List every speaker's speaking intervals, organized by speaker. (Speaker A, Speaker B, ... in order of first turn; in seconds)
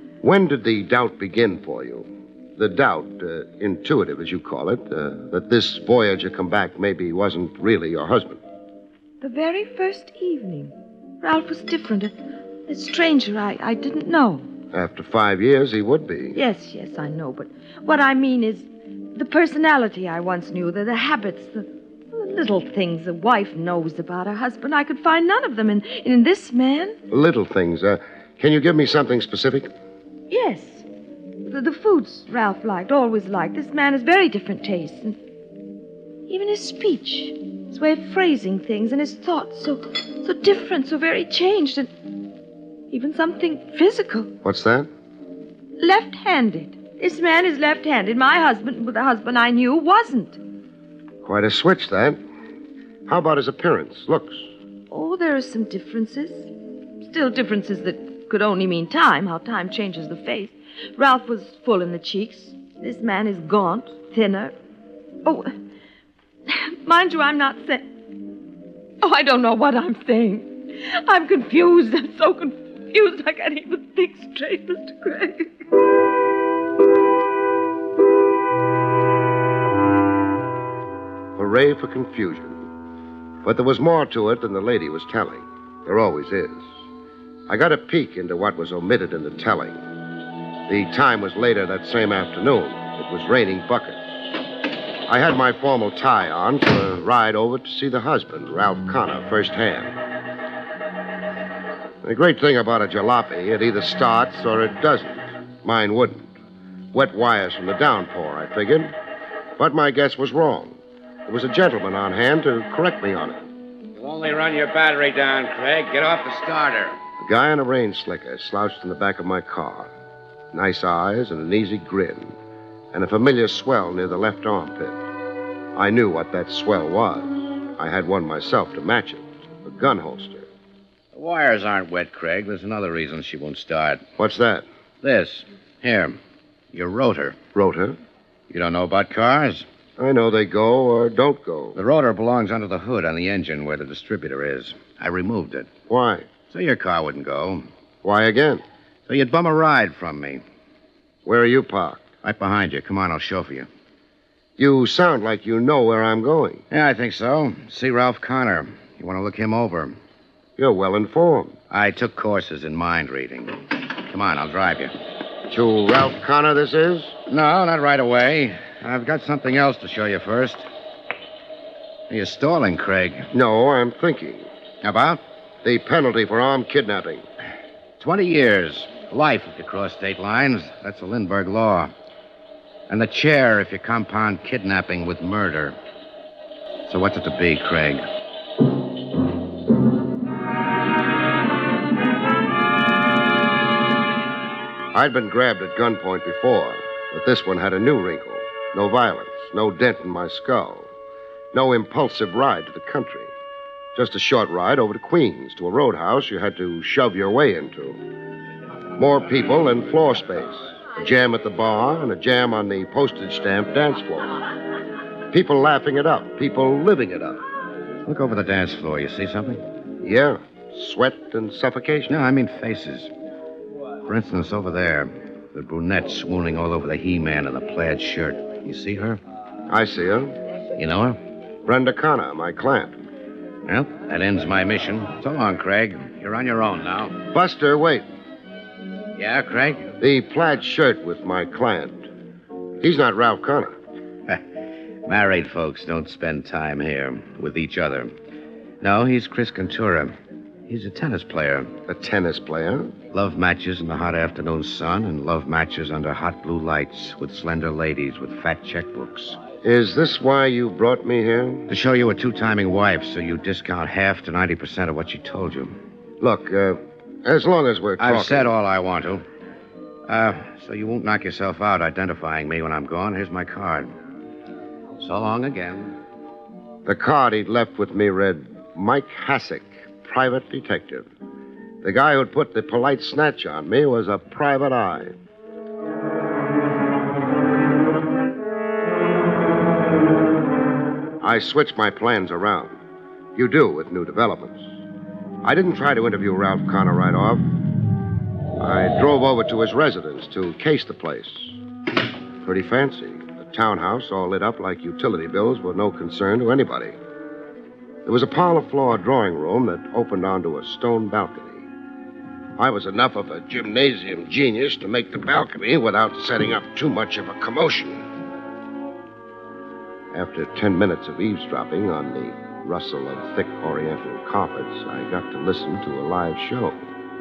Speaker A: 0.2-8.4, 14.7-16.4, 27.1-29.7, 44.4-44.9, 51.2-52.2, 53.1-54.5, 81.3-82.6, 83.4-86.7, 87.5-89.8, 90.7-94.2, 95.1-100.0, 102.0-106.3, 106.9-108.9, 109.6-110.8, 111.3-113.4, 117.2-119.9, 120.5-122.3, 122.9-125.0, 125.7-130.5, 134.2-134.7, 137.5-138.0, 140.0-141.8, 145.9-146.3, 148.0-148.6, 151.2-152.0, 154.6-156.6, 160.6-161.5, 165.5-167.2, 173.3-174.5, 175.6-177.2, 194.9-200.9, 201.5-203.3, 203.9-208.0, 208.9-214.4, 215.3-217.4, 220.0-222.2, 229.7-230.3, 231.6-232.9, 237.3-238.1, 240.0-242.1, 242.8-243.7, 251.9-252.9, 259.6-261.7, 266.2-268.5, 276.8-281.1, 281.8-285.1, 291.2-292.8, 293.4-294.6, 295.4-297.4, 298.6-301.6, 302.4-306.9, 308.1-311.7, 312.6-318.0, 320.1-326.8
Speaker B: 9.2-12.1, 12.7-14.5, 16.3-27.0, 30.3-30.9, 31.4-35.2, 36.3-41.9, 42.9-44.3, 45.8-50.4, 54.9-56.5, 57.0-64.5, 65.2-65.5, 66.5-67.9, 69.0-75.5
Speaker C: 114.0-117.0, 131.1-134.0, 135.0-136.2, 136.7-137.4, 138.5-139.7, 141.7-145.7, 146.5-147.7, 149.1-150.4, 152.2-153.7, 156.7-160.0, 161.7-164.9, 167.3-170.7, 172.1-173.3, 174.8-175.2, 178.0-181.9, 182.9-185.8, 186.9-188.0, 218.0-219.6, 222.1-223.1, 224.1-229.2, 230.8-231.2, 233.6-237.2, 239.1-239.9, 245.0-248.1, 248.8-251.8, 253.1-259.4, 261.7-265.8, 268.0-269.2, 270.1-273.9, 275.0-275.9